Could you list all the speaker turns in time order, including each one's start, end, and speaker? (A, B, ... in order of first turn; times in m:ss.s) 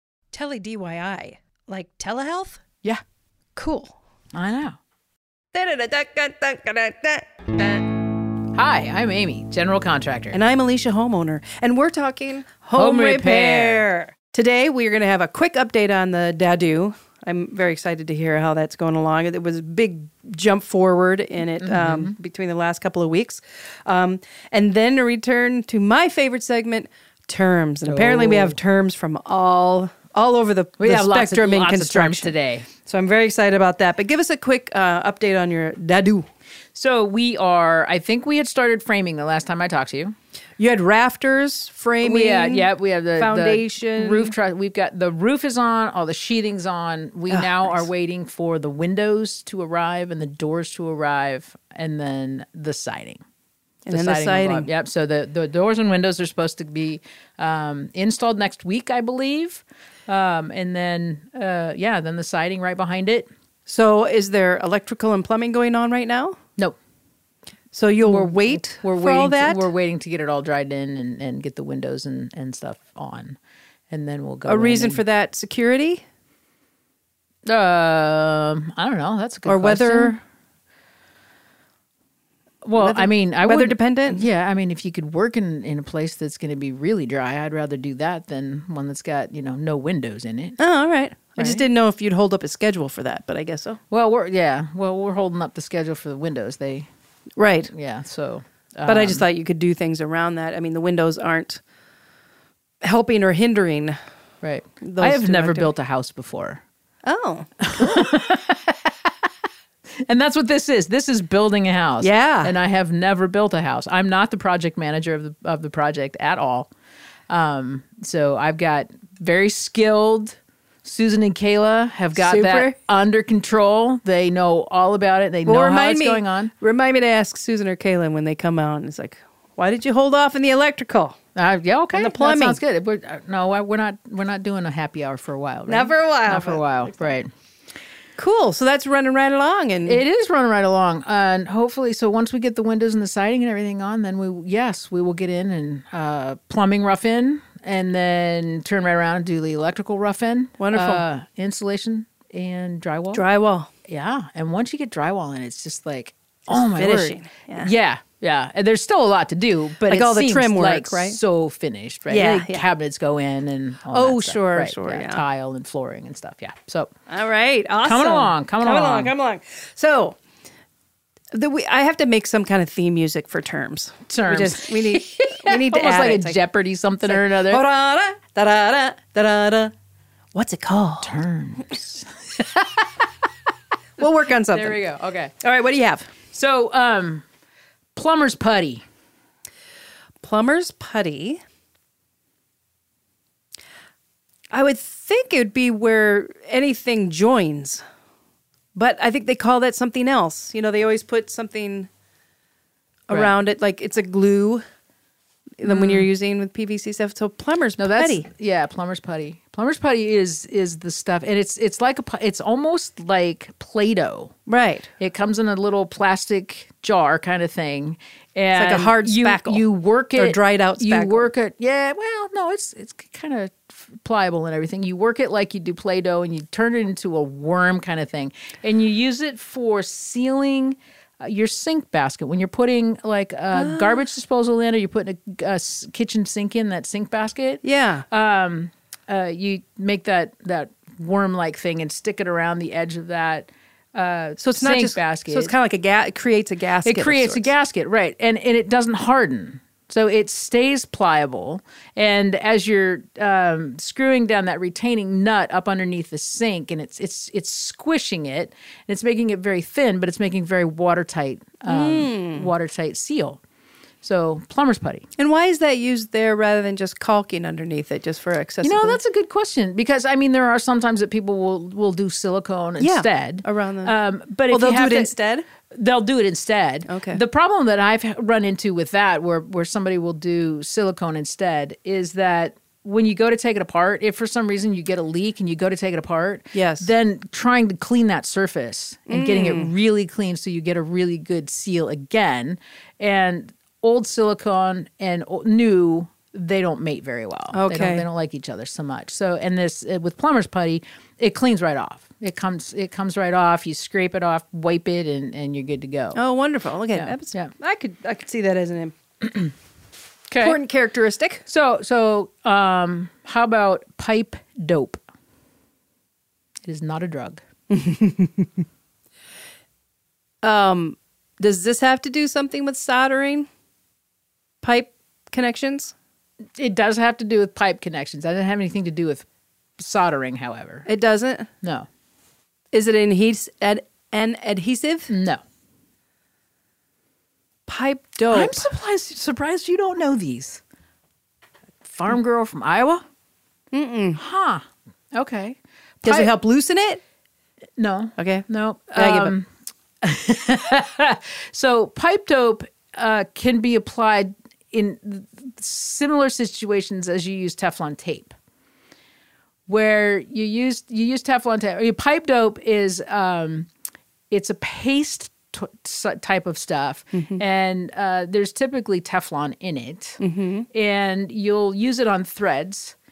0:00.3-0:02.6 A
0:03.6-0:04.0 A
0:04.3-0:04.8 B
0:05.5-0:07.9 A
0:08.6-0:10.4 B
0:10.3-0:36.3 A
0:12.8-0:13.8 B
0:21.6-0:22.2 B
0:27.8-0:28.6 B
0:30.8-0:32.7 B
0:36.8-0:40.1 B
0:40.6-0:44.4 A
0:42.0-0:53.2 B
0:47.3-0:47.9 A
0:53.9-0:54.7 A
0:53.9-1:03.3 B
1:03.7-1:06.4 A
1:07.7-1:09.7 A
1:08.0-1:13.4 B
1:13.9-1:15.0 B
1:14.5-1:16.0 A
1:17.5-1:20.2 B
1:19.5-1:20.2 A
1:22.6-1:30.6 B
1:22.8-1:24.2 A
1:30.6-1:33.8 A
1:31.4-1:31.6 B
1:33.9-1:36.9 B
1:37.4-1:37.7 A
1:37.7-1:39.2 B
1:38.9-1:41.6 A
1:42.8-1:44.0 A
1:44.4-1:46.6 B
1:44.8-1:45.7 A
1:47.0-1:48.1 A
1:47.6-1:48.9 B
1:50.1-1:56.7 B
1:52.0-1:52.5 A
1:57.3-2:06.5 B
2:02.2-2:02.7 A
2:05.5-2:11.2 A
2:11.4-2:17.3 B
2:11.9-2:12.6 A
2:15.7-2:17.1 A
2:18.2-2:20.0 A
2:19.9-2:33.2 B
2:30.6-2:31.0 A
2:33.1-2:33.7 A
2:33.8-2:46.9 B
2:36.5-2:37.7 A
2:39.9-2:41.2 A
2:42.1-2:42.6 A
2:43.9-2:45.2 A
2:47.1-2:50.2 A
2:47.8-2:49.1 B
2:51.3-2:56.4 A
2:54.1-2:57.6 B
2:57.0-2:59.7 A
3:00.3-3:01.1 A
3:01.0-3:02.9 B
3:04.0-3:04.8 A
3:04.5-3:05.4 B
3:05.4-3:06.1 A
3:06.3-3:07.2 B
3:08.0-3:08.8 B
3:10.2-3:11.4 A
3:14.5-3:17.8 A
3:18.8-3:21.9 A
3:23.1-3:24.6 A
3:25.6-3:28.3 A
3:25.6-3:26.1 B
3:27.8-3:34.3 B
3:34.5-3:34.9 A
3:35.0-4:05.5 B
3:38.6-3:39.6 A
3:40.2-3:41.3 A
3:53.5-3:54.0 A
3:57.6-3:58.1 A
4:04.4-4:07.5 A
4:06.8-4:23.4 B
4:21.7-4:22.5 A
4:24.0-4:25.1 B
4:25.2-4:29.0 A
4:28.6-4:35.1 B
4:32.8-4:33.9 A
4:34.5-4:35.5 A
4:35.7-5:06.2 B
4:36.9-4:37.2 A
4:46.5-4:46.9 A
4:49.1-4:49.7 A
4:57.5-4:58.0 A
5:06.2-5:09.0 A
5:06.9-5:07.5 B
5:10.3-5:10.6 B
5:10.4-5:11.4 A
5:11.5-5:15.0 B
5:16.7-5:17.4 B
5:17.7-5:18.6 A
5:20.4-5:23.5 A
5:24.6-5:25.9 A
5:26.6-5:29.3 B
5:29.8-5:30.9 B
5:30.9-5:31.5 A
5:31.6-5:31.9 B
5:32.7-5:35.1 A
5:35.1-5:35.4 B
5:37.7-5:38.7 A
5:38.3-5:40.6 B
5:41.8-5:43.0 B
5:43.7-5:44.2 A
5:44.2-5:46.3 B
5:46.0-5:47.0 A
5:47.8-5:49.5 B
5:48.2-5:49.4 A
5:50.0-5:58.3 B
5:59.7-6:03.7 B
6:04.3-6:10.2 B
6:07.1-6:07.4 A
6:10.2-6:10.7 A
6:10.7-6:13.0 B